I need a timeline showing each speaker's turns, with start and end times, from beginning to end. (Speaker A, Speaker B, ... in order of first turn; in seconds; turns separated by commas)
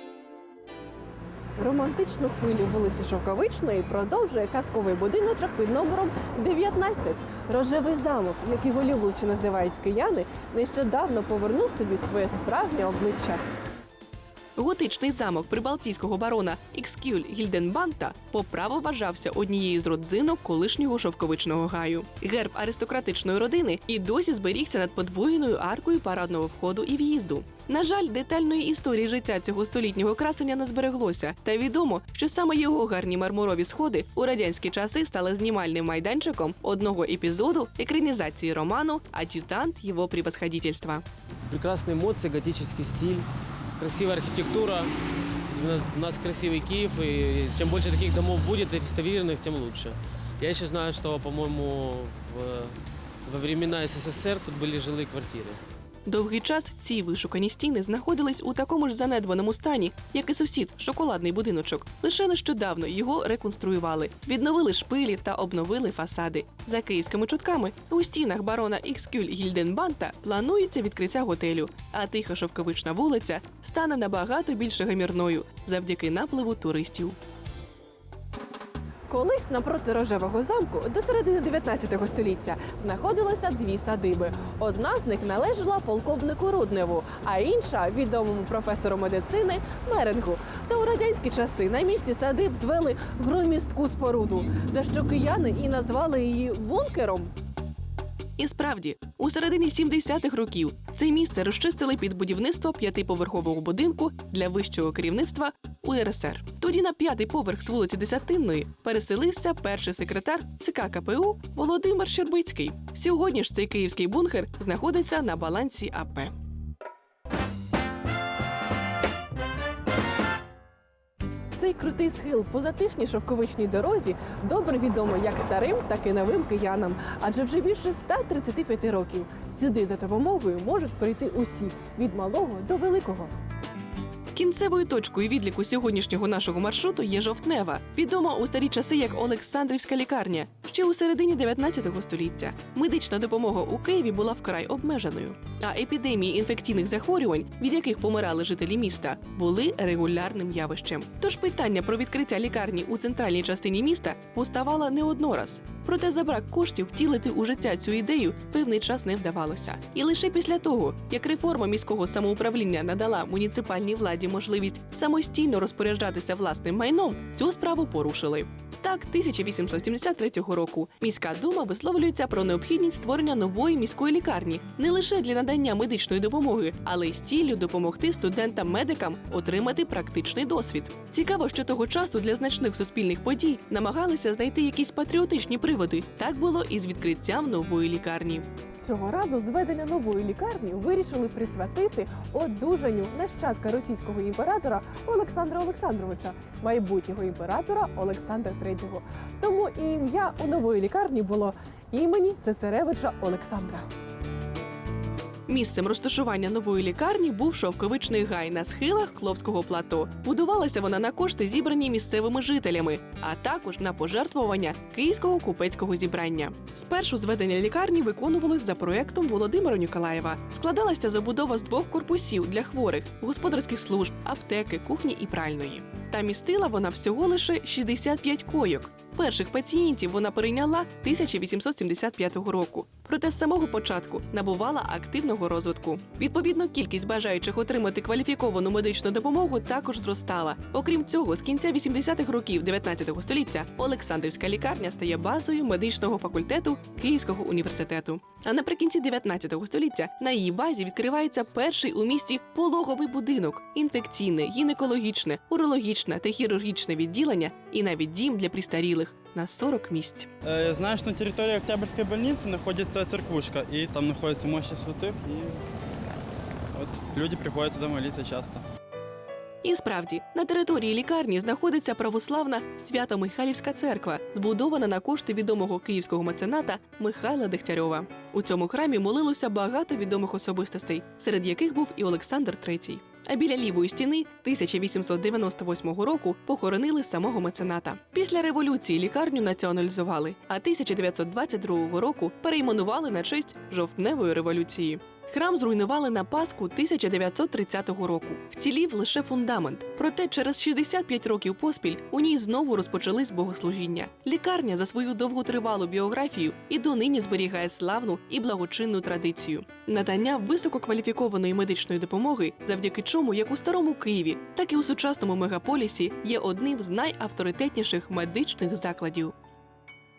Speaker A: 1.6-13.4, Speaker B: 14.6-41.0, Speaker C: 41.5-43.3, Speaker C: 43.8-44.9, Speaker C: 45.5-52.8, Speaker C: 53.3-55.6, Speaker B: 56.1-77.2, Speaker A: 79.1-97.3, Speaker B: 98.4-116.3, Speaker A: 121.5-133.3, Speaker B: 134.3-188.5, Speaker A: 188.8-203.9, Speaker B: 205.5-260.3, Speaker D: 260.4-265.6, Speaker D: 266.8-268.6, Speaker B: 269.6-319.3